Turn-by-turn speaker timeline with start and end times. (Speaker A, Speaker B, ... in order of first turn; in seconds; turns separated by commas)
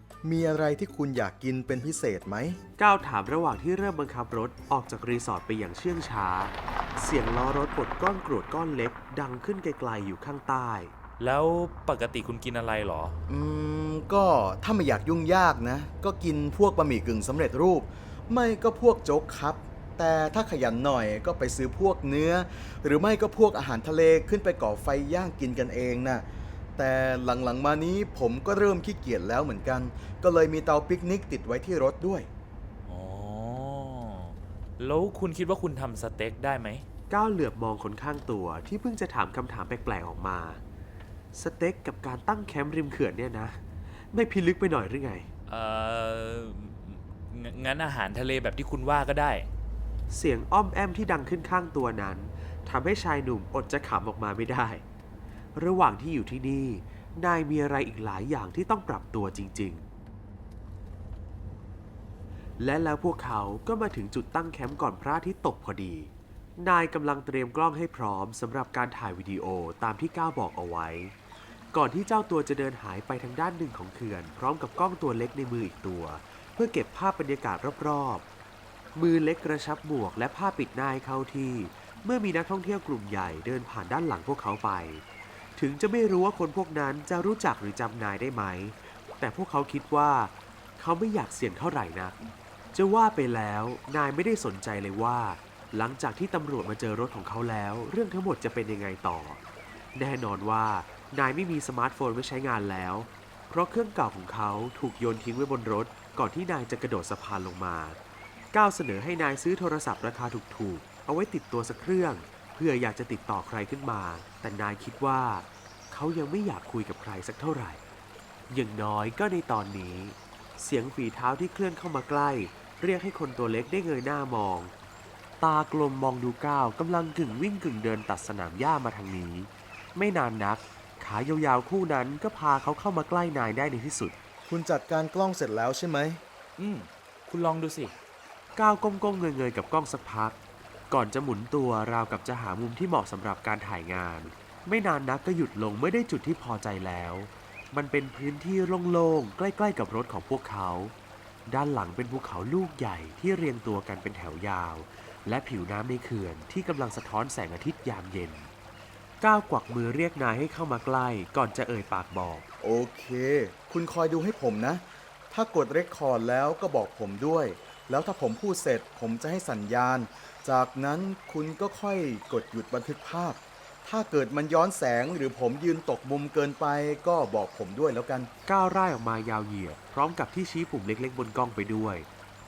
Speaker A: 0.2-2.6, Speaker B: 2.8-10.9, Speaker C: 11.2-13.2, Speaker A: 13.3-26.2, Speaker A: 26.8-32.3, Speaker C: 32.9-36.8, Speaker B: 37.1-40.6, Speaker B: 41.3-45.3, Speaker C: 45.5-49.5, Speaker B: 50.1-54.8, Speaker B: 55.5-59.8, Speaker B: 62.6-71.2, Speaker B: 71.7-78.2, Speaker B: 78.9-85.0, Speaker B: 85.6-92.2, Speaker B: 92.7-99.4, Speaker B: 99.9-108.0, Speaker B: 108.5-117.8, Speaker B: 118.5-124.7, Speaker B: 125.4-134.2, Speaker A: 134.5-136.2, Speaker C: 136.6-137.9, Speaker B: 138.6-140.4, Speaker B: 140.9-150.9, Speaker B: 151.5-158.5, Speaker B: 159.2-162.5, Speaker A: 162.6-178.3, Speaker B: 178.5-182.1